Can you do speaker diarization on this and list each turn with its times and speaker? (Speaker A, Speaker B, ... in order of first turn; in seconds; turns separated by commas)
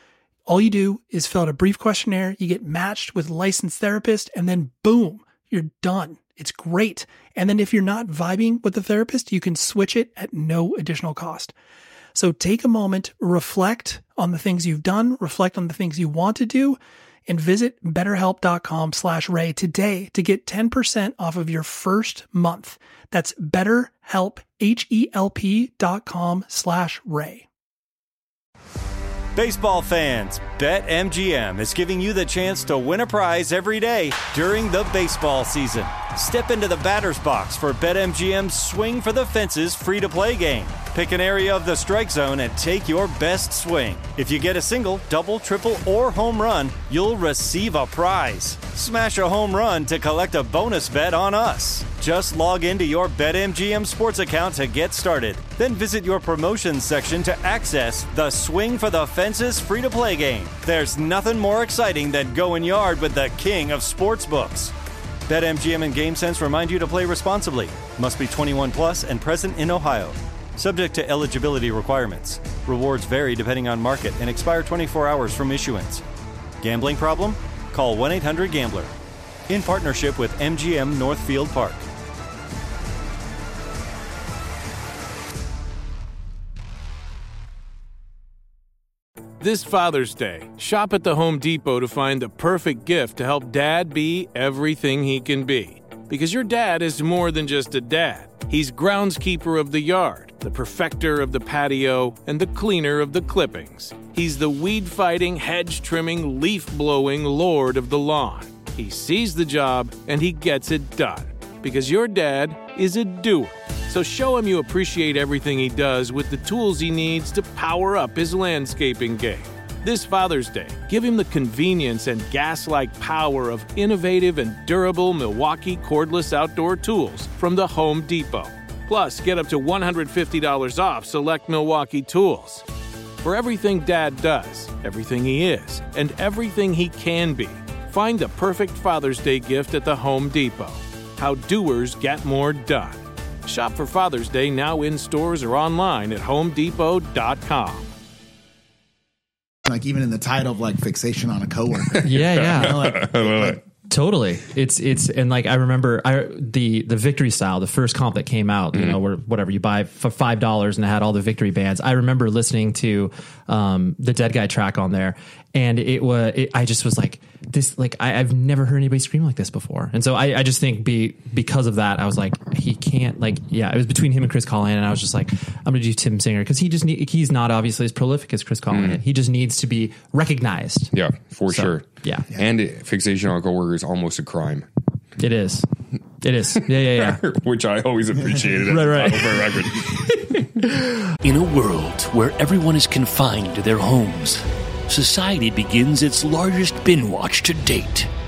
Speaker A: 0.5-11.5, Speaker A: 12.1-27.5, Speaker B: 29.3-64.7, Speaker B: 65.3-76.0, Speaker B: 76.6-78.9, Speaker B: 79.5-81.8, Speaker C: 89.4-132.6, Speaker C: 133.2-147.9, Speaker D: 149.6-153.6, Speaker E: 152.0-153.6, Speaker F: 152.0-153.0, Speaker F: 153.9-180.9, Speaker E: 178.7-179.0, Speaker E: 180.9-184.7, Speaker F: 181.5-182.2, Speaker F: 185.2-185.7, Speaker F: 186.2-187.2, Speaker E: 186.8-190.0, Speaker F: 188.7-191.0, Speaker G: 191.2-198.1